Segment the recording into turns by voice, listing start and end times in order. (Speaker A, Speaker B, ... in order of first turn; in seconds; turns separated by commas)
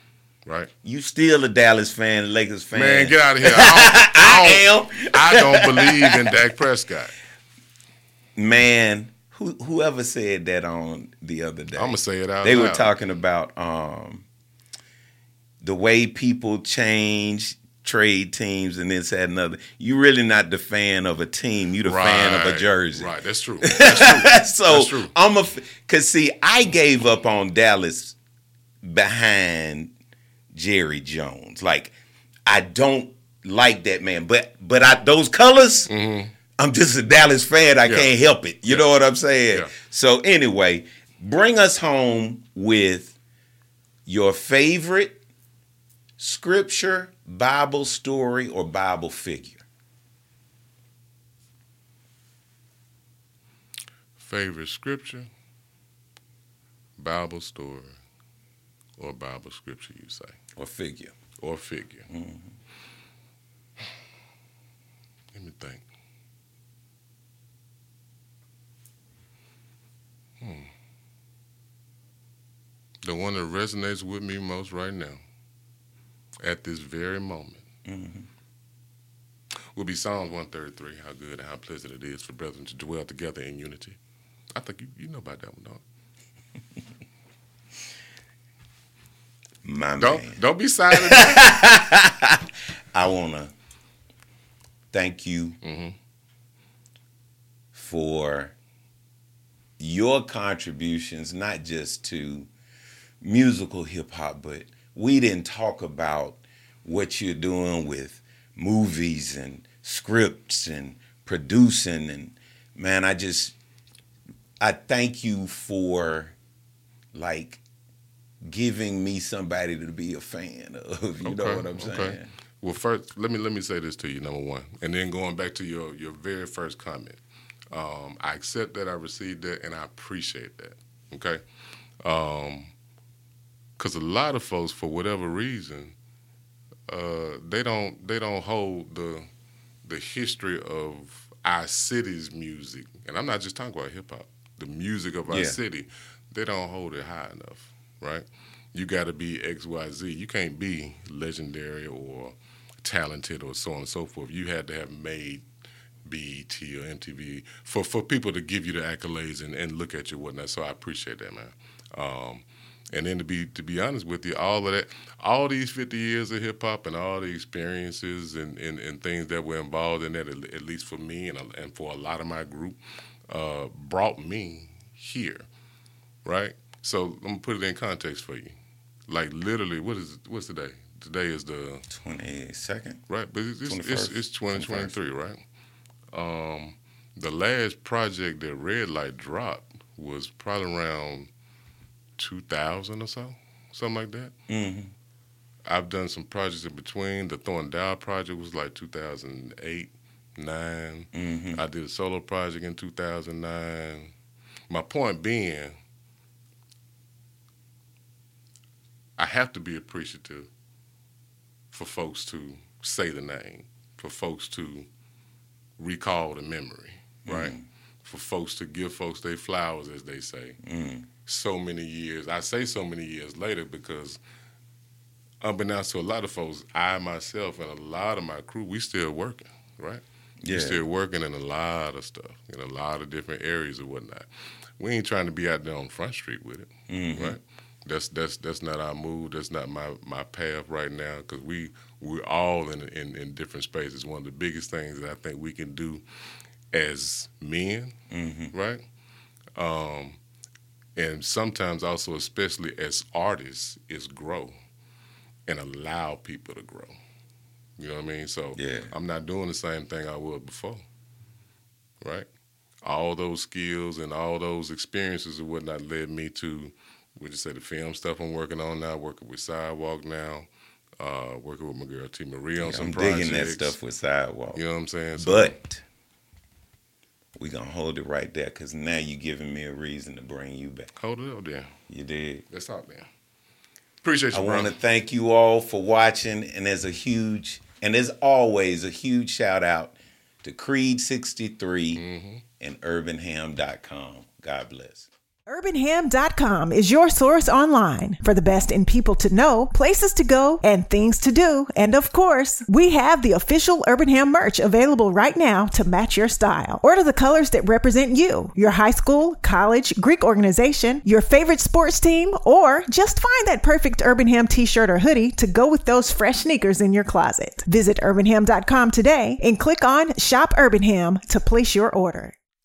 Speaker A: 0.8-6.3, Speaker B: 2.7-7.1, Speaker A: 8.4-14.2, Speaker B: 11.8-12.9, Speaker A: 15.6-23.1, Speaker B: 21.8-25.1, Speaker A: 23.6-28.2, Speaker A: 28.8-29.9, Speaker A: 30.5-31.9, Speaker A: 32.5-35.9, Speaker B: 35.9-36.3, Speaker A: 36.6-43.1, Speaker A: 44.1-45.2, Speaker A: 46.2-49.6, Speaker B: 54.2-55.3, Speaker B: 57.0-57.9, Speaker B: 59.0-60.4, Speaker A: 60.6-61.1, Speaker B: 61.4-62.1, Speaker A: 62.1-62.5, Speaker B: 65.3-65.8, Speaker B: 70.4-70.7, Speaker B: 73.0-75.2, Speaker B: 76.4-77.6, Speaker A: 77.8-78.3, Speaker B: 79.8-84.0, Speaker B: 84.5-85.8, Speaker A: 89.6-90.4, Speaker B: 90.0-91.6, Speaker A: 90.9-93.5, Speaker A: 94.9-95.6, Speaker B: 95.6-96.0, Speaker A: 97.7-98.5, Speaker A: 99.8-102.5, Speaker A: 103.2-113.6, Speaker A: 114.6-116.3, Speaker A: 117.1-117.6, Speaker A: 118.4-122.2, Speaker B: 121.2-127.2, Speaker B: 127.7-131.4, Speaker B: 132.0-132.7, Speaker B: 133.8-135.9, Speaker B: 136.9-139.3, Speaker B: 139.8-155.4, Speaker A: 145.3-145.6, Speaker B: 156.1-172.8, Speaker B: 173.3-175.4, Speaker B: 176.2-178.6, Speaker B: 179.1-181.8, Speaker A: 181.9-183.0, Speaker B: 183.1-185.4, Speaker A: 183.7-184.9, Speaker B: 186.1-191.3, Speaker B: 192.2-194.3, Speaker A: 194.5-194.9, Speaker B: 195.7-204.1, Speaker A: 201.1-201.6, Speaker B: 204.7-205.8, Speaker B: 209.2-210.5, Speaker B: 211.7-214.9, Speaker B: 215.8-220.6, Speaker A: 217.3-217.6, Speaker A: 220.6-221.1, Speaker B: 221.2-224.2, Speaker B: 225.4-234.3, Speaker A: 230.4-230.8, Speaker B: 234.8-246.0, Speaker A: 236.9-237.4, Speaker B: 246.7-248.0, Speaker A: 248.1-248.5, Speaker B: 248.5-248.8, Speaker B: 249.6-250.2, Speaker B: 251.0-254.5, Speaker B: 255.5-256.9, Speaker B: 257.8-260.9, Speaker A: 258.6-258.9, Speaker B: 262.0-262.3, Speaker B: 262.8-270.5, Speaker B: 271.0-273.8, Speaker A: 272.6-274.6, Speaker B: 274.5-275.6, Speaker A: 275.2-275.8, Speaker A: 277.4-280.9, Speaker B: 281.0-281.7, Speaker A: 281.9-282.4, Speaker B: 282.5-283.1, Speaker B: 284.0-284.7, Speaker A: 284.3-292.0, Speaker B: 291.9-292.4, Speaker A: 292.6-295.1, Speaker C: 295.5-322.4